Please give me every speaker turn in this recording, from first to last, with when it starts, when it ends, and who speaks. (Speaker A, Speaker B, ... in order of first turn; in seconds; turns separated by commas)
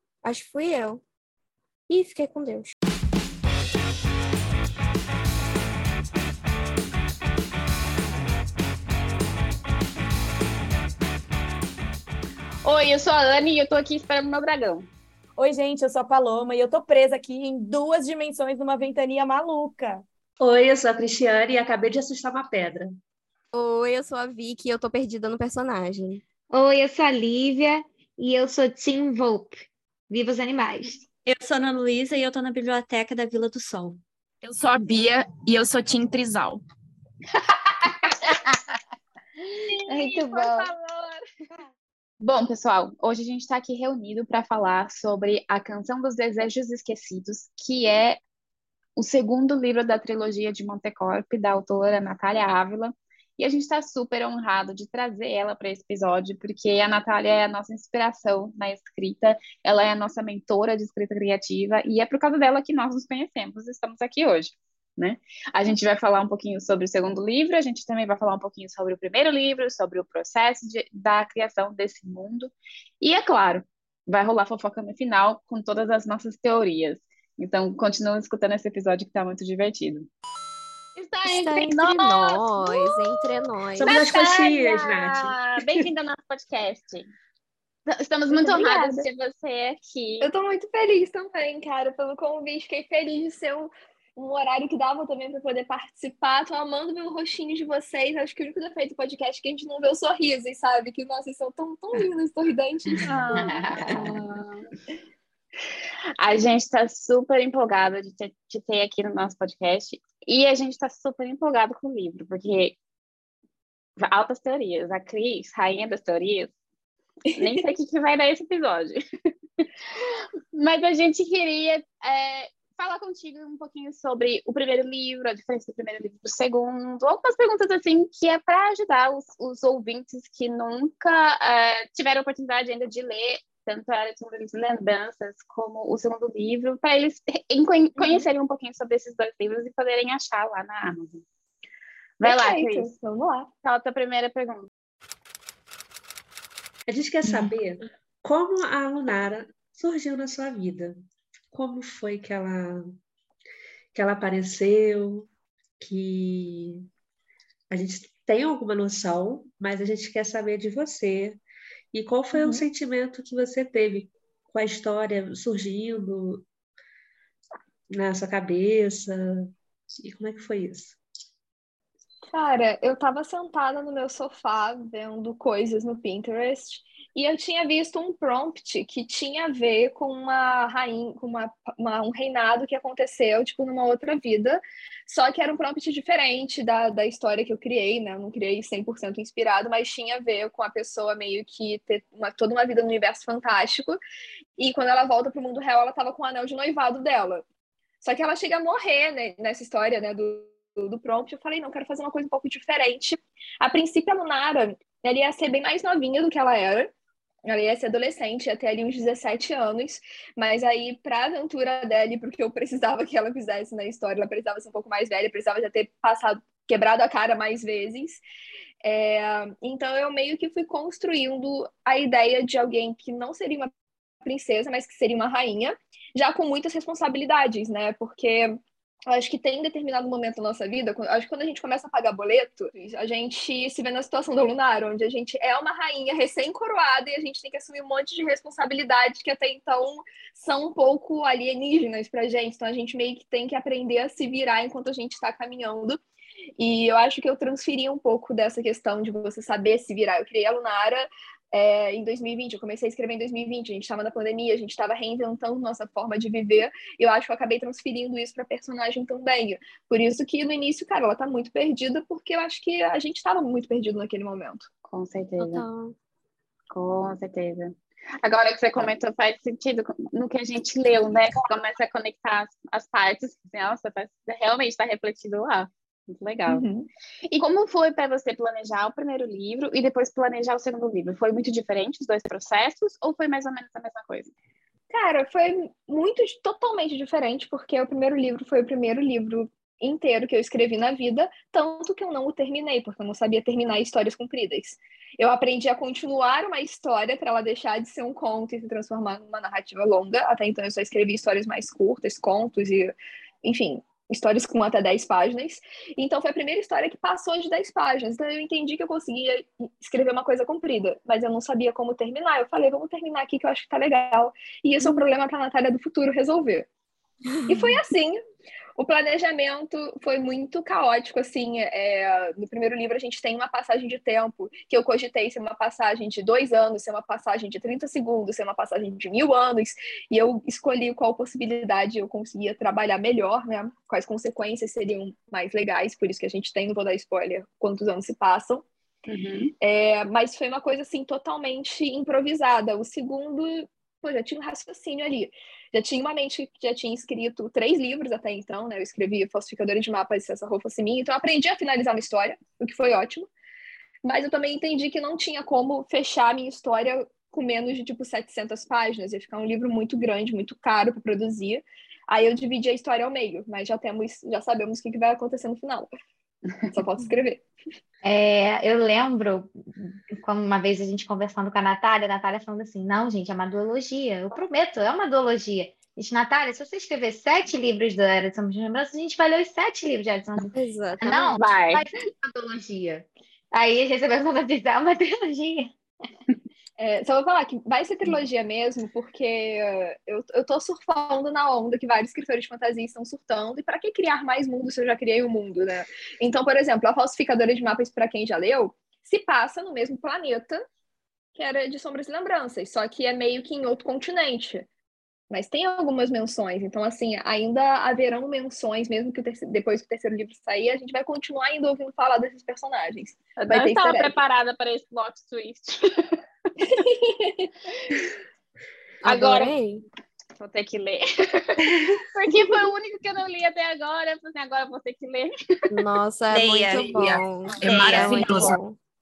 Speaker A: 0.2-1.0, Speaker A: 1.9-2.7, Speaker B: 12.6-14.9, Speaker C: 15.4-20.0, Speaker D: 20.4-22.9, Speaker A: 23.5-26.2, Speaker E: 26.5-31.0, Speaker F: 31.2-34.0, Speaker G: 34.4-36.6, Speaker H: 39.6-41.3, Speaker B: 39.9-40.7, Speaker B: 42.2-48.2, Speaker B: 49.0-80.1, Speaker B: 81.0-82.8, Speaker A: 81.2-84.0, Speaker D: 83.8-85.9, Speaker B: 83.8-87.1, Speaker B: 87.9-90.3, Speaker H: 88.3-89.1, Speaker H: 90.2-104.0, Speaker B: 103.0-104.7, Speaker E: 103.3-104.0, Speaker B: 106.2-112.8, Speaker B: 114.0-116.5, Speaker H: 117.3-117.7, Speaker B: 117.3-119.0, Speaker B: 119.6-141.2, Speaker H: 137.9-138.3, Speaker B: 142.2-142.9, Speaker H: 142.2-143.5, Speaker B: 143.6-144.7, Speaker D: 146.9-150.9, Speaker D: 151.5-152.9, Speaker D: 153.9-155.3, Speaker D: 155.8-156.8, Speaker D: 157.7-161.4, Speaker D: 161.9-166.4, Speaker H: 162.3-162.7, Speaker D: 167.9-171.0, Speaker H: 172.3-194.0, Speaker H: 194.6-197.4, Speaker H: 198.0-206.9, Speaker H: 207.4-218.2, Speaker H: 218.8-223.7, Speaker H: 224.2-246.0, Speaker H: 246.6-264.7, Speaker B: 264.9-265.6, Speaker A: 265.4-265.9, Speaker B: 266.7-276.6, Speaker H: 276.5-276.9, Speaker B: 277.3-284.3, Speaker H: 284.9-316.6, Speaker H: 317.5-318.2, Speaker H: 318.8-338.6, Speaker B: 339.1-339.5, Speaker H: 339.6-353.3, Speaker H: 354.0-365.9, Speaker H: 366.7-367.4, Speaker E: 368.0-385.7, Speaker A: 380.5-381.3, Speaker B: 381.4-381.8, Speaker H: 386.8-400.6, Speaker H: 401.4-404.6, Speaker H: 405.3-414.1, Speaker B: 413.4-416.1, Speaker H: 416.6-418.1, Speaker A: 419.0-419.8, Speaker B: 419.0-419.5, Speaker B: 420.4-425.4, Speaker A: 425.7-428.8, Speaker F: 426.3-428.5, Speaker G: 426.9-428.6